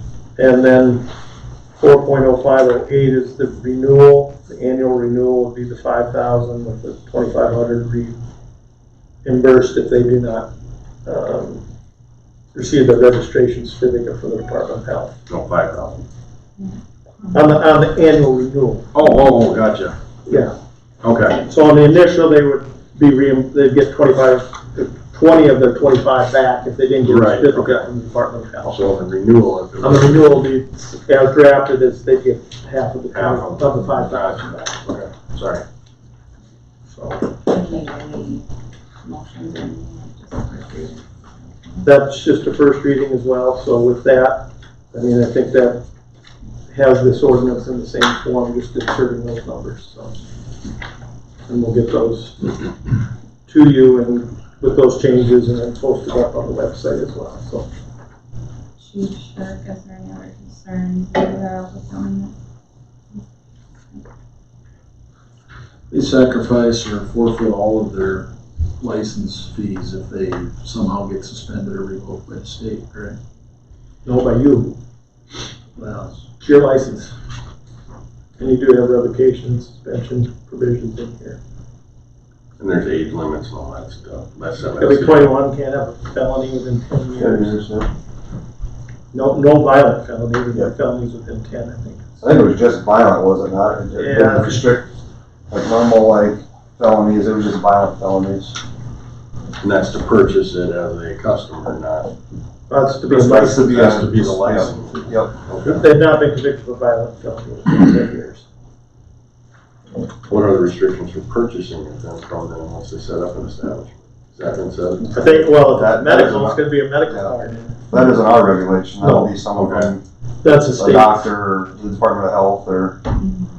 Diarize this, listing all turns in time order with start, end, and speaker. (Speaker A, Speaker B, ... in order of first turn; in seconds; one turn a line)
Speaker A: 0.4-1.0
Speaker A: 1.8-8.2
Speaker A: 9.2-10.5
Speaker A: 11.0-11.6
Speaker A: 12.5-15.1
Speaker B: 15.3-16.0
Speaker A: 17.3-18.9
Speaker B: 18.9-19.9
Speaker A: 20.3-20.5
Speaker B: 21.0-21.4
Speaker A: 21.4-28.8
Speaker B: 27.1-27.9
Speaker B: 28.6-30.4
Speaker A: 29.8-34.6
Speaker B: 33.1-35.6
Speaker C: 37.5-38.4
Speaker C: 39.0-41.9
Speaker A: 41.8-45.8
Speaker A: 46.7-50.1
Speaker A: 51.5-52.5
Speaker A: 53.5-57.7
Speaker C: 58.8-62.3
Speaker D: 65.9-73.2
Speaker A: 74.0-74.8
Speaker A: 75.9-77.1
Speaker A: 78.4-81.4
Speaker B: 82.6-85.4
Speaker A: 84.8-87.6
Speaker E: 87.2-87.9
Speaker A: 89.1-92.1
Speaker E: 92.2-94.8
Speaker A: 94.0-94.6
Speaker E: 95.5-98.6
Speaker B: 99.6-102.1
Speaker A: 102.7-103.8
Speaker B: 103.1-105.8
Speaker E: 103.2-105.3
Speaker A: 105.7-108.5
Speaker B: 110.3-115.2
Speaker A: 115.1-117.9
Speaker E: 115.6-117.3
Speaker E: 117.9-120.0
Speaker A: 119.0-119.3
Speaker B: 119.5-119.9
Speaker A: 120.4-121.3
Speaker E: 120.7-123.0